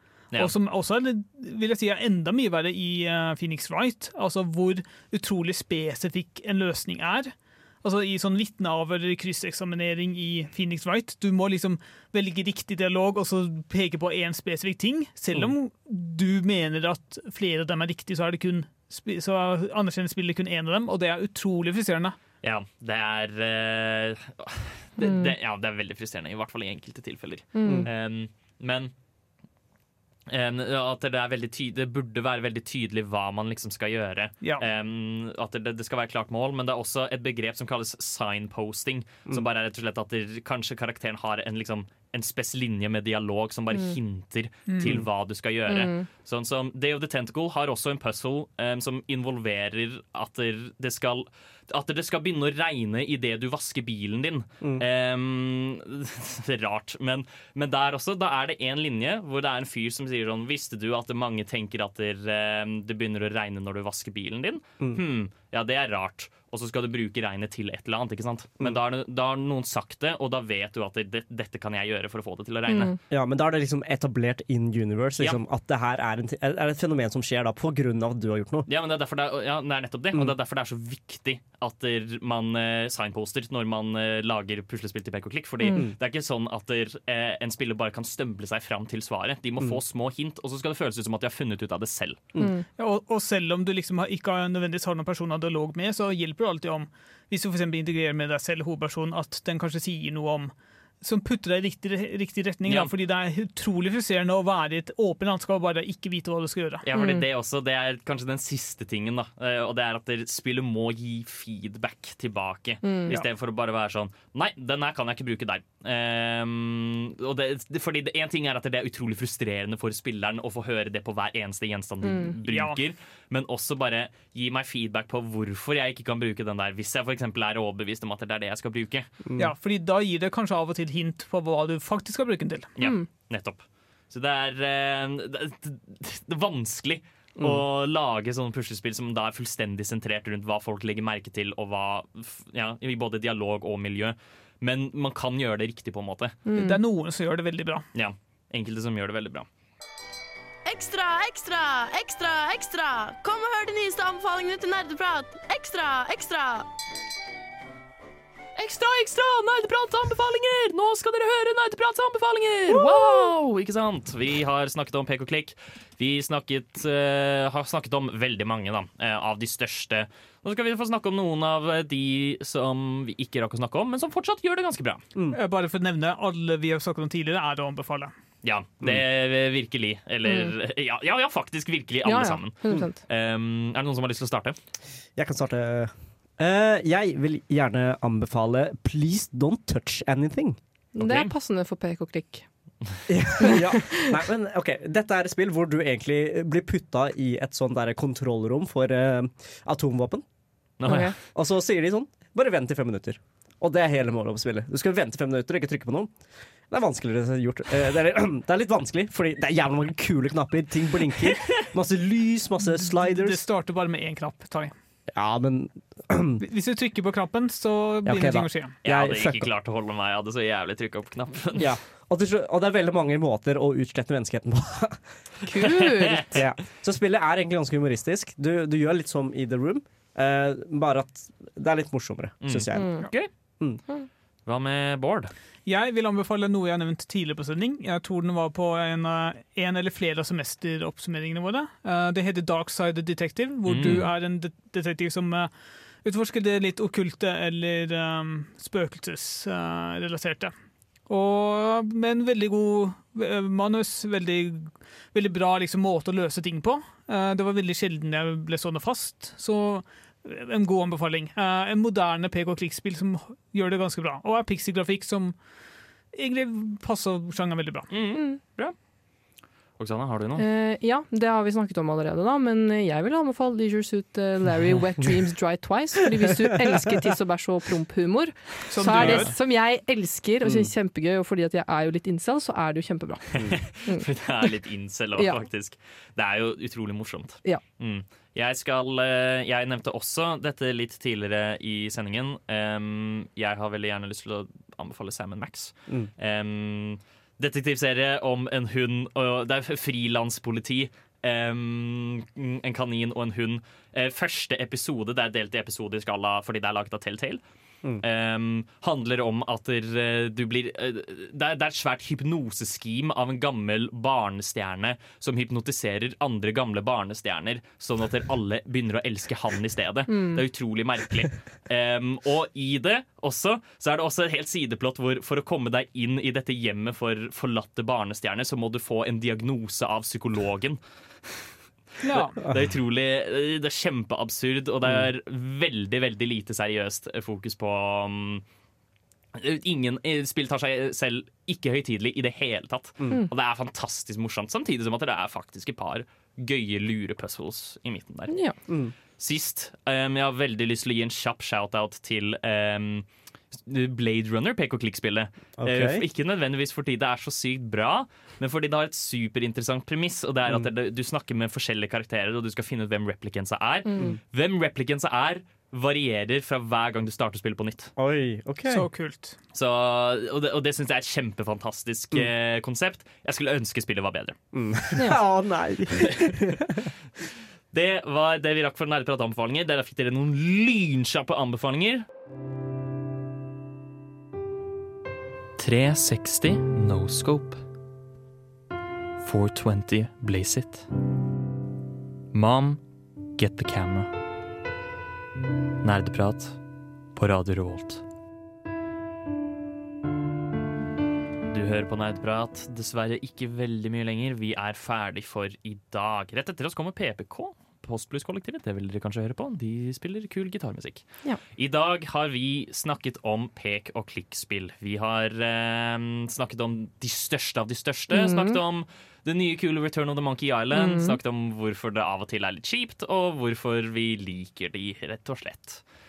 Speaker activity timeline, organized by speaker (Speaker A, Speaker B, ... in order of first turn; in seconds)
Speaker A: 0.4-22.2, 44.7-45.0, 92.8-106.8, 122.5-122.8, 129.4-132.7, 146.5-147.9, 175.3-178.1, 212.6-214.7, 216.4-218.7, 235.7-245.5, 246.0-250.5, 251.1-265.4, 266.1-267.9, 278.7-279.3, 332.0-332.4, 368.7-369.4
Speaker B: 22.4-28.9, 30.3-73.0, 78.7-92.2, 102.7-102.9, 106.8-129.2, 132.8-146.4, 147.9-149.5, 158.6-175.1, 178.4-184.6, 191.0-191.3, 200.8-201.2, 218.8-221.7, 225.8-226.4, 232.4-233.3, 234.5-235.3, 243.7-244.1, 267.9-268.7, 269.8-270.4, 278.9-279.2, 283.4-307.4, 308.0-338.4, 339.4-348.3, 349.2-353.1, 353.6-367.9, 369.5-374.4, 377.7-382.1, 385.6-387.6, 389.2-390.9, 392.3-392.8, 393.4-394.1, 395.8-396.6, 397.2-398.0, 401.5-425.8
Speaker C: 25.0-25.3, 27.6-27.9, 45.7-46.0, 72.7-73.0, 92.4-92.7, 106.9-107.2, 112.8-113.1, 122.0-122.3, 132.8-133.1, 146.5-146.8, 180.3-180.5, 182.1-183.0, 190.9-192.5, 193.4-193.9, 200.9-201.1, 225.4-226.4, 232.8-233.1, 270.4-283.3, 320.1-320.4, 348.3-348.6, 418.1-418.6, 420.7-421.2
Speaker D: 73.1-78.7, 129.3-129.5, 185.2-190.6, 193.1-200.2, 201.3-206.1, 206.7-213.4, 215.1-216.4, 218.1-219.5, 221.6-225.0, 226.3-233.1, 280.4-280.7, 348.7-348.9, 355.6-356.0, 368.0-368.9, 374.5-376.9
Speaker E: 150.7-156.7